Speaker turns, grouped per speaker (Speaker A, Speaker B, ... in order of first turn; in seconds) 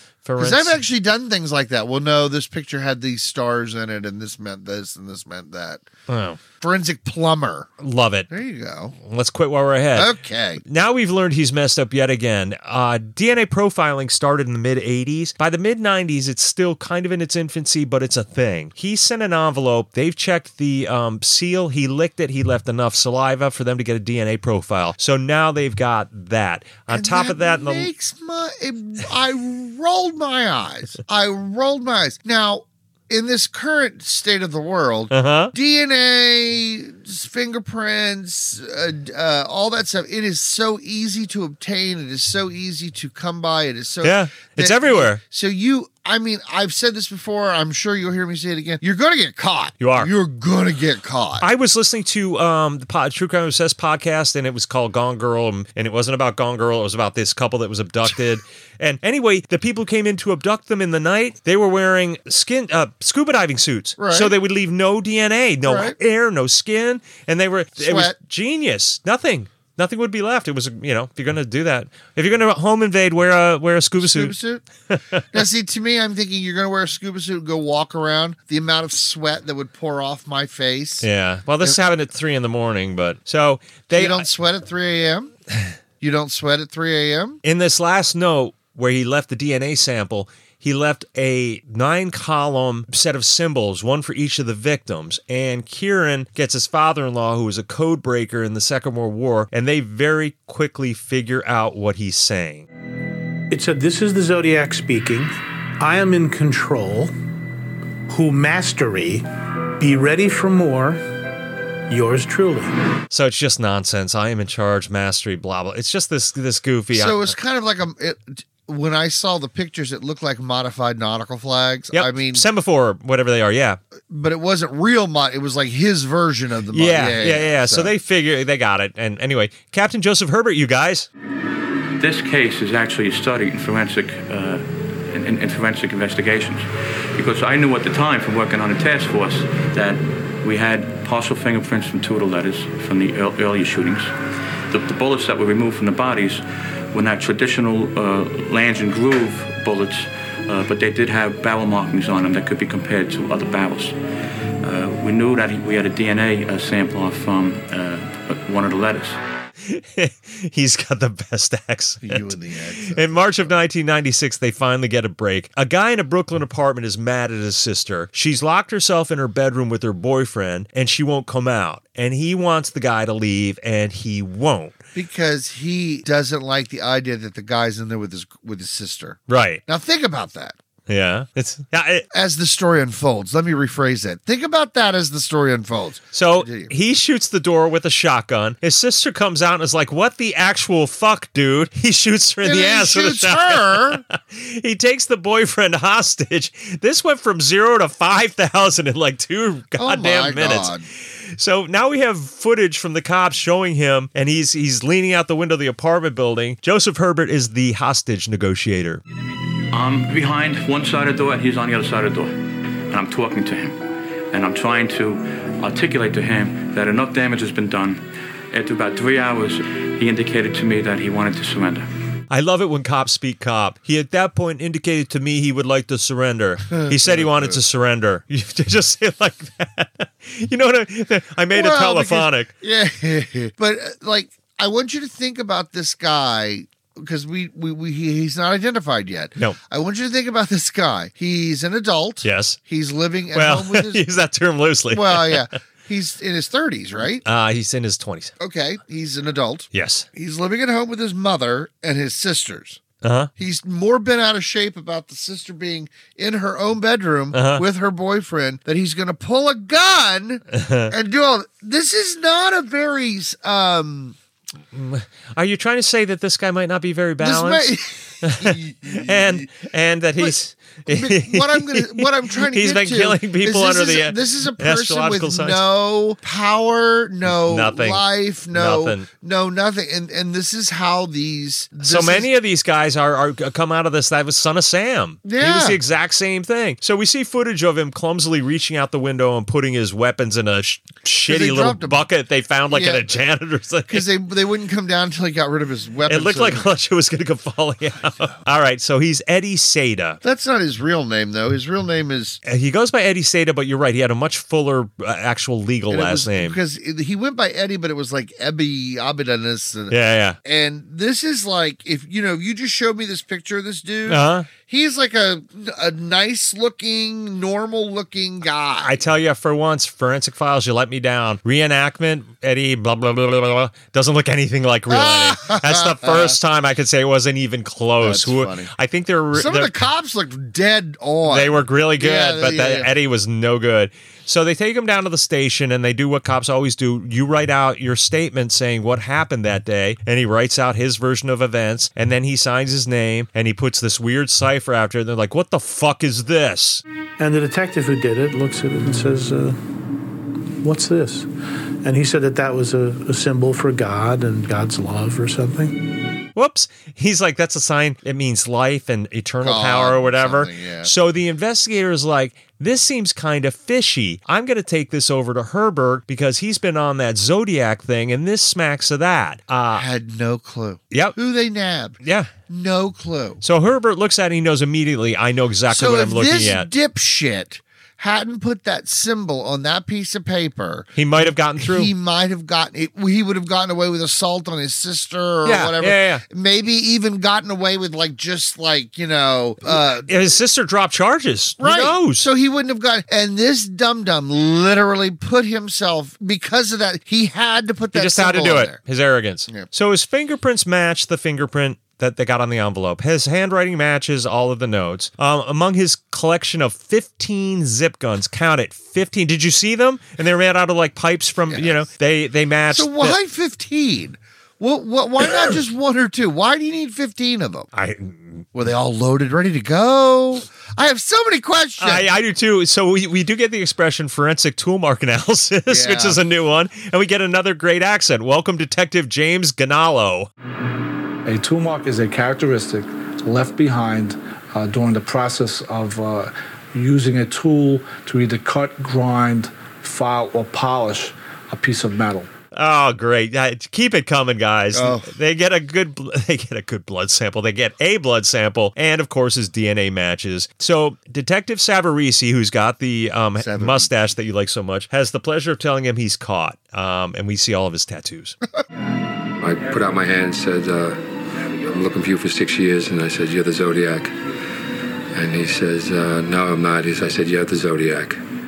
Speaker A: 0.2-0.8, 6.1-6.4, 7.8-8.3, 9.0-27.9, 35.1-35.5, 44.0-45.2, 49.8-50.1, 51.4-74.3, 74.9-75.2, 81.0-84.3, 87.4-102.7, 113.1-117.4, 121.9-123.8, 126.7-131.1, 159.6-174.8, 179.3-179.6, 180.9-182.1, 186.1-209.0, 222.3-232.5, 242.2-242.6, 243.3-245.5, 247.2-248.3, 249.7-250.1, 253.0-253.3, 257.3-257.6, 260.5-260.9, 264.7-275.6, 277.2-279.1, 281.8-294.1, 296.1-300.2, 302.4-306.6, 309.9-310.4, 314.1-314.5, 318.8-329.7, 331.3-346.8, 356.4-369.9, 370.9-371.2, 372.0-372.3, 373.4-376.7, 381.0-381.9, 385.4-386.2, 389.7-392.3, 397.9-413.2, 415.2-415.6, 417.7-418.4, 421.8-430.3, 442.5-458.4
Speaker B: 0.4-5.8, 6.6-7.7, 8.3-9.0, 9.9-10.6, 26.9-51.5, 64.0-64.3, 65.6-66.0, 67.8-68.2, 74.0-74.6, 75.3-81.1, 83.9-85.3, 86.0-87.4, 116.9-122.5, 124.1-127.9, 162.0-163.6, 174.9-180.6, 182.1-186.7, 192.4-194.0, 199.8-200.9, 226.7-227.6, 231.5-244.0, 244.9-247.2, 248.4-252.8, 253.4-264.2, 267.2-269.5, 270.2-282.3, 285.2-285.8, 291.3-292.0, 292.7-293.1, 293.9-296.7, 300.2-302.4, 305.9-318.9, 324.9-326.4, 328.0-328.7, 329.3-332.9, 359.4-360.9, 369.7-372.0, 372.5-373.4, 375.7-390.1, 391.6-398.8, 411.5-411.9, 412.7-417.7, 418.5-422.1, 425.7-426.2, 444.7-445.1, 453.4-453.9
Speaker C: 103.5-107.1, 108.1-109.3, 109.8-111.0, 111.9-112.7, 347.2-349.6, 350.6-351.3, 351.8-355.8
Speaker D: 132.0-144.1, 144.7-154.0, 154.6-159.2, 209.7-213.8, 214.3-221.9
Speaker E: 431.3-442.3
Speaker F: 459.4-464.1, 465.1-468.2